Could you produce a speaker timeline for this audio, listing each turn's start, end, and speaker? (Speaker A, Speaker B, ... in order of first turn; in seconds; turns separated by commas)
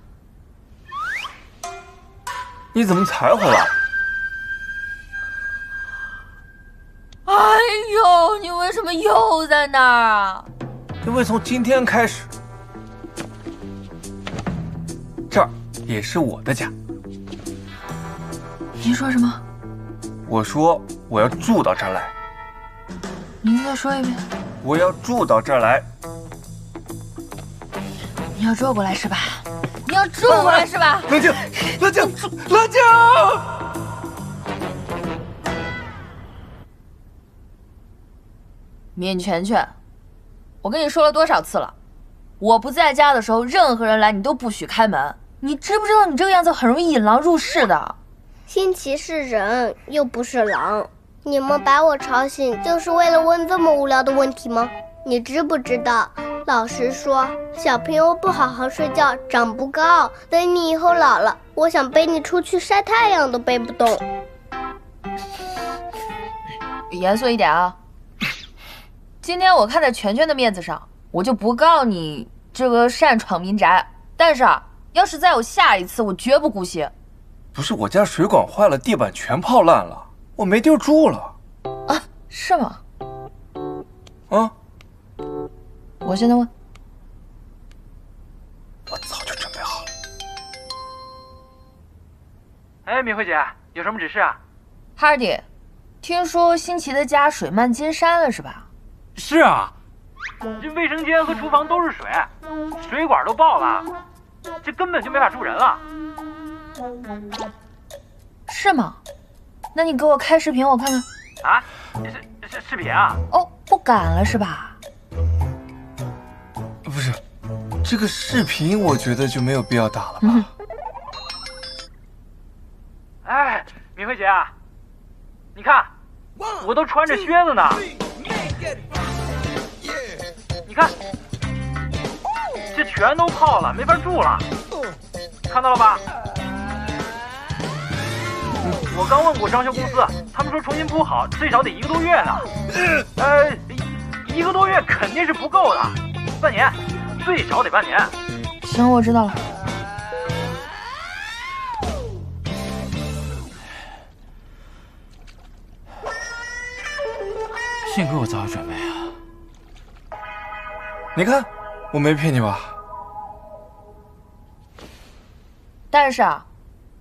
Speaker A: 2.7-3.7, Speaker B: 7.2-10.5, Speaker A: 11.0-12.3, Speaker A: 15.3-16.7, Speaker B: 18.8-19.4, Speaker A: 20.2-22.1, Speaker B: 23.4-24.2, Speaker A: 24.6-25.9, Speaker B: 28.4-31.1, Speaker A: 30.3-33.6, Speaker B: 39.0-39.7, Speaker B: 40.6-41.7, Speaker B: 42.4-48.0, Speaker C: 48.5-64.0, Speaker B: 66.9-67.8, Speaker B: 69.2-76.9, Speaker A: 77.5-81.3, Speaker B: 81.9-82.8, Speaker B: 86.0-86.5, Speaker A: 88.9-89.8, Speaker D: 92.8-94.4, Speaker B: 95.0-95.4, Speaker B: 96.0-98.7, Speaker D: 99.2-99.7, Speaker D: 100.6-103.9, Speaker D: 104.6-105.8, Speaker B: 108.5-109.0, Speaker B: 109.7-111.0, Speaker D: 111.4-113.2, Speaker B: 113.3-114.8, Speaker A: 116.8-117.2, Speaker A: 117.8-120.5, Speaker D: 123.2-124.5, Speaker D: 125.5-125.9, Speaker D: 126.6-127.8, Speaker D: 130.7-130.9, Speaker D: 132.7-134.4, Speaker D: 135.5-136.0, Speaker D: 138.7-142.5, Speaker D: 143.2-148.1, Speaker B: 148.6-149.4, Speaker A: 161.1-162.7, Speaker B: 165.9-166.4